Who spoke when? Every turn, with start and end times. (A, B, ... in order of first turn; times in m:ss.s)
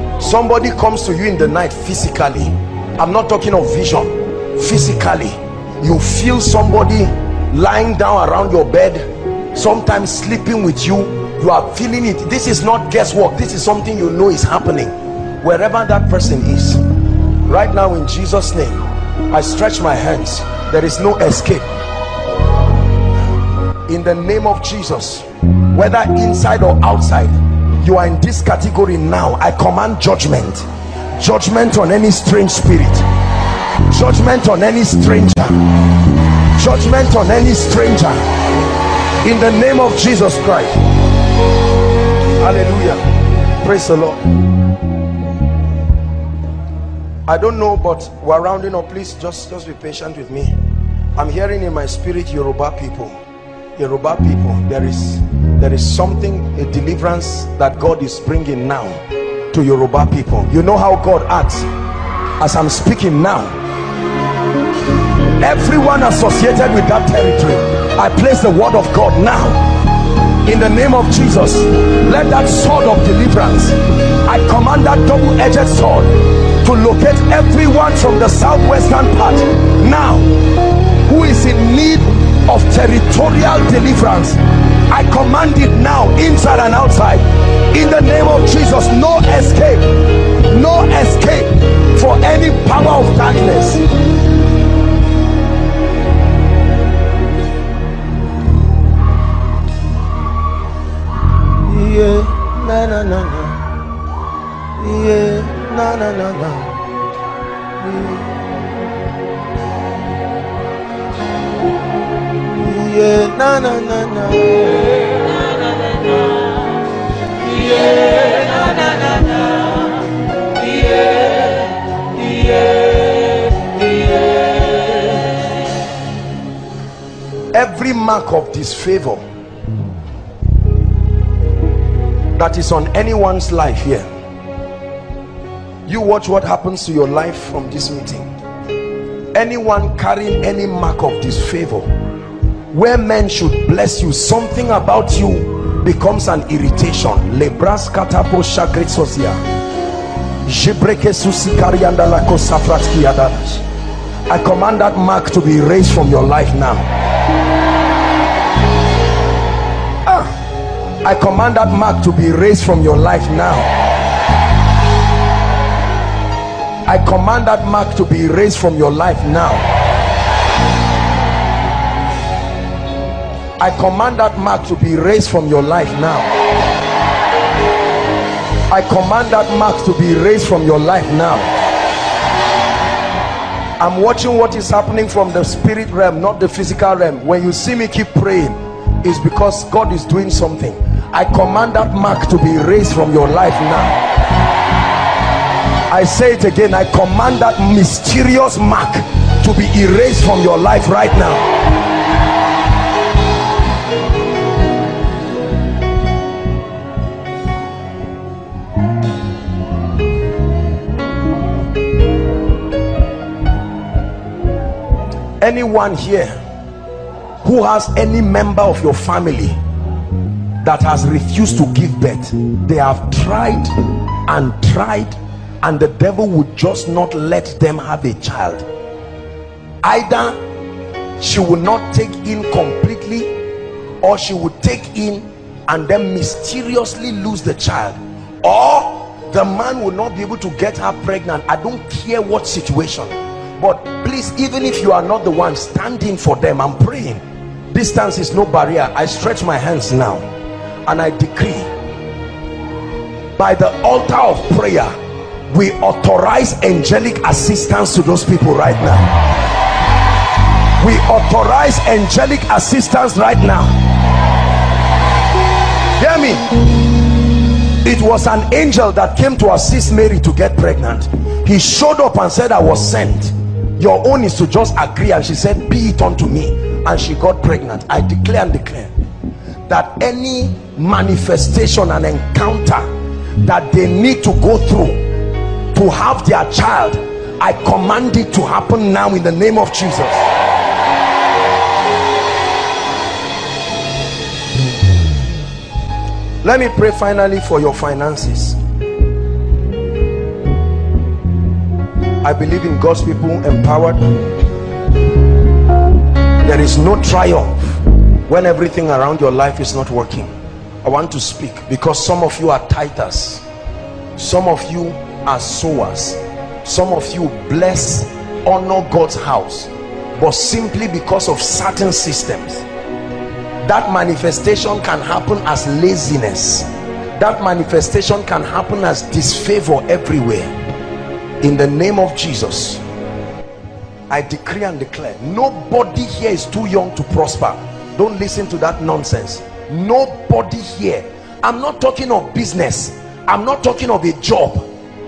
0:00.2-0:16.8 A
0:17.5-0:21.8 A
0:23.9-0:33.1 A
0:33.9-0:35.7 A
0:36.5-0:38.2 A
0:39.2-0:40.8 A
0:42.4-0:43.0 A
0:43.6-0:44.3 A
0:47.3-0:50.6 A
0:51.2-0:53.2 A
0:53.8-0:59.0 A
0:59.5-1:01.7 A
1:02.4-1:03.6 A
1:05.4-1:09.6 A
1:10.5-1:20.3 A
1:21.1-1:33.8 A
1:41.6-1:43.6 A
1:44.8-1:46.8 A
1:47.8-1:48.3 A
1:52.6-1:55.2 A
1:58.0-1:59.6 A
2:07.5-2:09.2 A
2:12.4-2:14.1 A
2:15.9-2:18.3 A
2:19.3-2:21.9 A
2:22.7-2:29.4 A
2:30.4-2:33.6 A
2:34.3-2:36.9 A
2:40.1-2:40.3 A
2:41.0-2:43.7 A
2:46.9-2:49.6 A
2:53.6-2:56.3 A
2:58.7-3:01.5 A
3:03.8-3:14.0 A
3:15.9-3:21.5 A
3:35.4-3:36.4 A
3:37.4-3:39.6 A
3:40.6-3:43.7 A
3:44.3-3:48.7 A
3:49.8-3:50.4 A
3:51.2-3:53.3 A
3:54.0-4:10.3 A
4:10.9-4:11.7 A
4:13.4-4:14.9 A
4:15.5-4:19.1 A
4:20.8-4:23.8 A
4:26.0-4:26.5 A
4:27.8-4:38.9 A
4:39.7-4:42.9 A
4:43.4-4:45.0 A
4:45.7-4:50.3 A
4:56.4-4:58.6 A
5:02.2-5:04.3 A
5:06.4-5:10.3 A
5:10.8-5:13.4 A
5:14.2-5:22.7 A
5:23.6-5:30.5 A
5:31.4-5:32.8 A
5:34.1-5:44.7 A